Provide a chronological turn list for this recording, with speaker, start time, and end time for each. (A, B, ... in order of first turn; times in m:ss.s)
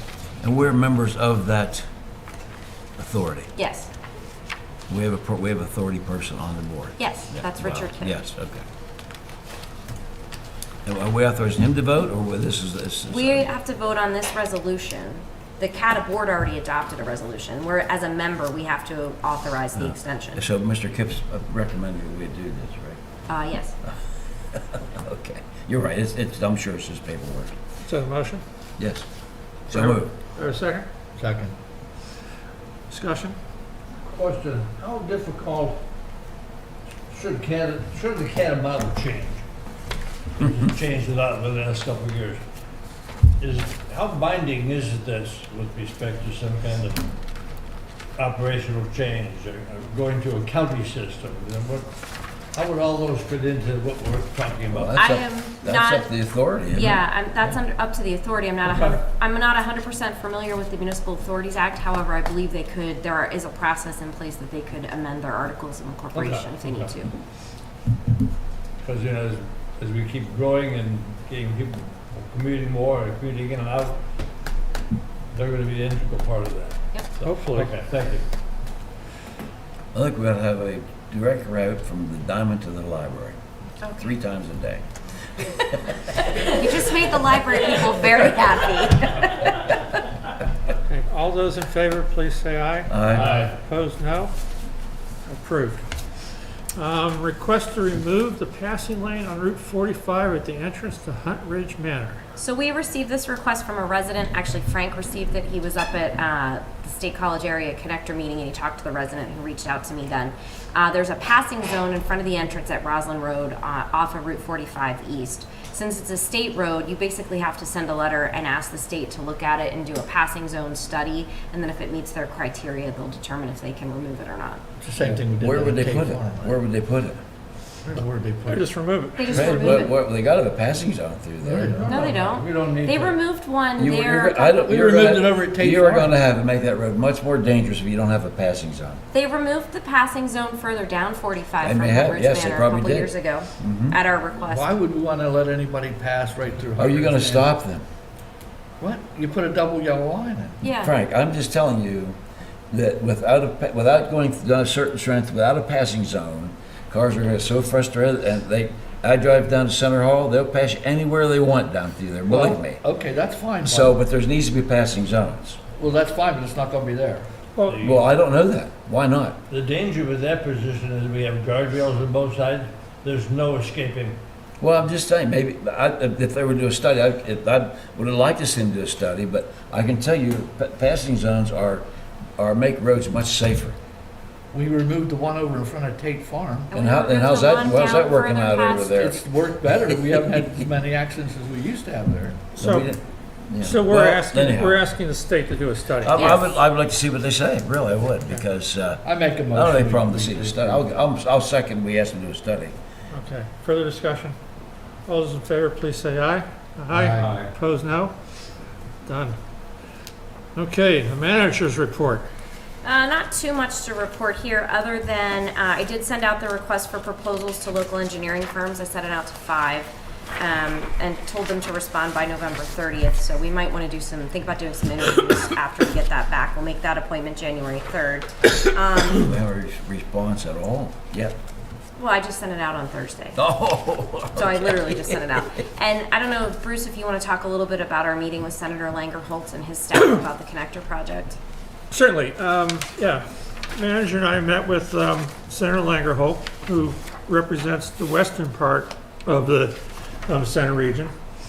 0:00.4-0:01.8 A
0:03.0-0:03.5 A
0:03.6-0:03.9 B
0:04.9-0:08.6 A
0:07.0-0:08.2 B
0:10.8-0:13.5 A
0:13.1-0:20.4 B
0:19.8-0:23.0 A
0:23.3-0:23.8 B
0:24.5-0:27.6 A
0:27.8-0:28.4 C
0:28.8-0:29.1 A
0:29.7-0:30.1 A
0:29.7-0:30.8 C
0:31.2-0:31.6 D
0:32.9-0:33.4 C
0:34.0-0:35.8 E
0:37.1-0:39.4 E
0:40.4-0:42.4 E
0:43.4-0:47.1 E
0:48.2-0:51.9 E
0:52.5-0:55.0 E
0:54.7-0:57.0 A
0:55.0-0:56.1 B
0:56.7-1:07.1 B
1:06.2-1:06.6 E
1:08.8-1:14.0 E
1:15.3-1:18.2 E
1:17.2-1:17.7 C
1:19.9-1:23.4 A
1:23.8-1:24.1 B
1:24.0-1:24.8 A
1:25.4-1:25.8 A
1:26.2-1:29.8 B
1:30.9-1:34.3 C
1:32.9-1:33.4 A
1:33.2-1:33.5 D
1:35.3-1:35.9 C
1:36.8-1:42.2 C
1:42.4-2:04.6 B
2:04.8-2:06.6 D
2:05.4-2:07.2 A
2:07.8-2:08.7 D
2:08.4-2:09.8 C
2:09.2-2:09.9 B
2:09.2-2:11.9 A
2:11.4-2:12.3 D
2:11.7-2:13.1 E
2:11.9-2:14.7 B
2:13.8-2:19.0 A
2:14.6-2:16.1 D
2:19.1-2:24.8 B
2:21.6-2:24.0 A
2:24.5-2:27.5 D
2:26.8-2:27.8 A
2:28.8-2:30.6 D
2:30.6-2:30.9 B
2:30.8-2:32.2 A
2:32.7-2:42.8 A
2:42.3-2:44.0 D
2:43.6-2:45.6 A
2:45.8-2:47.3 D
2:47.6-2:47.8 C
2:47.6-2:48.0 E
2:47.8-2:49.4 A
2:49.5-2:54.2 E
2:54.6-3:01.8 A
3:02.4-3:03.8 A
3:04.5-3:06.7 D
3:06.7-3:09.0 B
3:06.7-3:09.2 A
3:08.9-3:12.4 D
3:12.5-3:12.9 C
3:12.6-3:14.8 A
3:13.6-3:16.4 C
3:16.0-3:22.8 A
3:16.1-3:16.4 B
3:19.0-3:20.9 D
3:23.1-3:24.4 C
3:25.1-3:28.1 C
3:26.9-3:27.3 D
3:27.2-3:27.5 E
3:29.0-3:29.4 C
3:30.5-3:32.3 C
3:32.8-3:49.3 B
3:49.2-3:51.4 A
3:52.0-3:53.4 B
3:53.4-3:55.4 A
3:54.3-4:01.4 B
4:01.9-4:11.1 C